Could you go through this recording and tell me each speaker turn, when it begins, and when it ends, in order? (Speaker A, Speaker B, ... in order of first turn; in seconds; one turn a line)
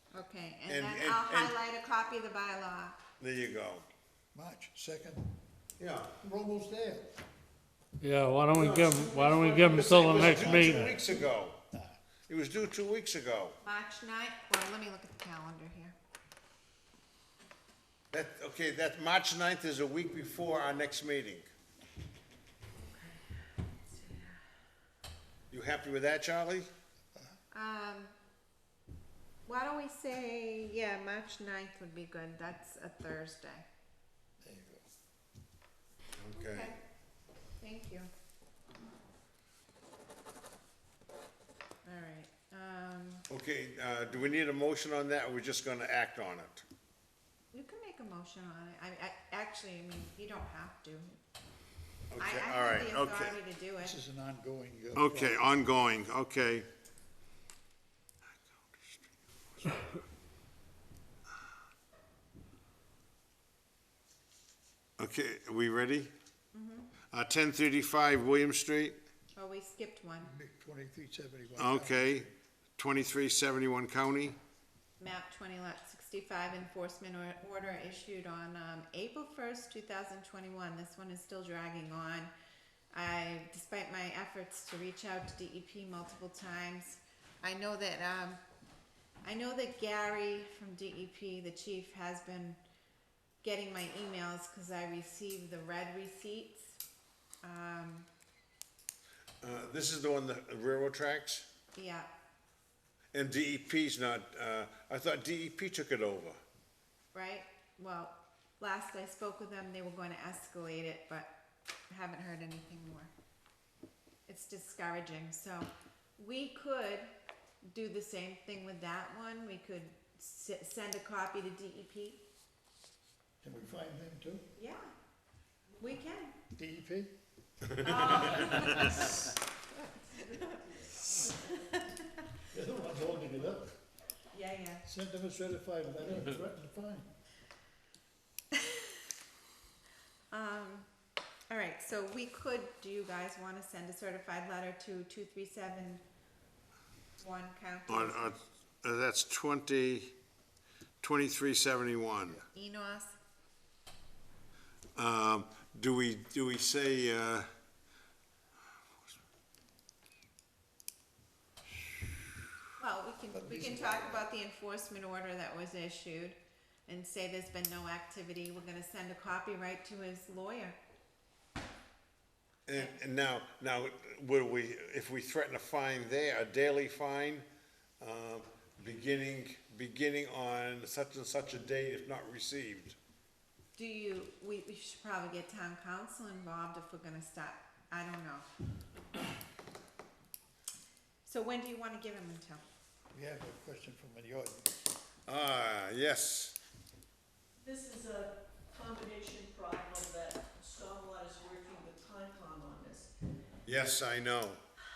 Speaker A: 0.1-3.0
Speaker B: 0.7-1.6
Speaker B: 3.2-3.9
Speaker C: 4.3-5.3
Speaker B: 5.8-6.1
Speaker C: 6.2-7.1
Speaker D: 8.0-10.8
Speaker B: 8.5-11.6
Speaker C: 10.4-10.6
Speaker C: 11.7-12.0
Speaker B: 12.3-13.6
Speaker A: 13.6-15.9
Speaker B: 18.1-21.5
Speaker A: 22.8-24.4
Speaker B: 25.5-26.7
Speaker A: 27.5-28.1
Speaker A: 29.4-33.6
Speaker C: 34.4-34.9
Speaker B: 36.2-36.7
Speaker A: 36.4-36.8
Speaker A: 37.6-38.1
Speaker A: 41.8-43.2
Speaker B: 43.3-46.6
Speaker A: 47.5-51.2
Speaker B: 52.1-53.4
Speaker A: 52.2-53.9
Speaker C: 53.8-55.4
Speaker B: 54.9-56.7
Speaker B: 58.6-59.9
Speaker B: 65.0-66.1
Speaker A: 66.5-66.9
Speaker B: 67.1-69.0
Speaker A: 69.3-70.3
Speaker C: 70.2-72.3
Speaker B: 71.6-74.4
Speaker A: 75.0-82.3
Speaker A: 82.9-88.4
Speaker A: 89.2-92.6
Speaker A: 93.4-96.8
Speaker A: 97.4-98.1
Speaker B: 99.4-101.5
Speaker A: 101.8-102.1
Speaker B: 103.1-106.4
Speaker A: 107.1-111.3
Speaker A: 111.9-113.1
Speaker A: 114.3-117.1
Speaker A: 117.6-122.2
Speaker C: 123.4-124.4
Speaker A: 124.5-124.9
Speaker A: 125.8-126.3
Speaker C: 126.5-127.2
Speaker B: 127.7-128.6
Speaker A: 127.8-129.2
Speaker A: 129.7-132.0
Speaker C: 132.5-133.8
Speaker A: 134.3-134.8
Speaker C: 134.8-137.1
Speaker A: 138.5-138.9
Speaker A: 140.3-140.9
Speaker A: 141.5-146.0
Speaker A: 147.2-148.4
Speaker B: 147.9-150.1
Speaker B: 151.0-152.4
Speaker A: 152.5-153.2
Speaker B: 154.9-157.5
Speaker A: 162.8-170.8
Speaker C: 163.3-164.2
Speaker B: 172.7-177.4
Speaker B: 178.0-183.0
Speaker A: 183.8-188.5
Speaker A: 191.2-192.6
Speaker C: 193.1-194.8
Speaker B: 195.3-196.6
Speaker E: 197.6-203.1
Speaker B: 203.7-204.6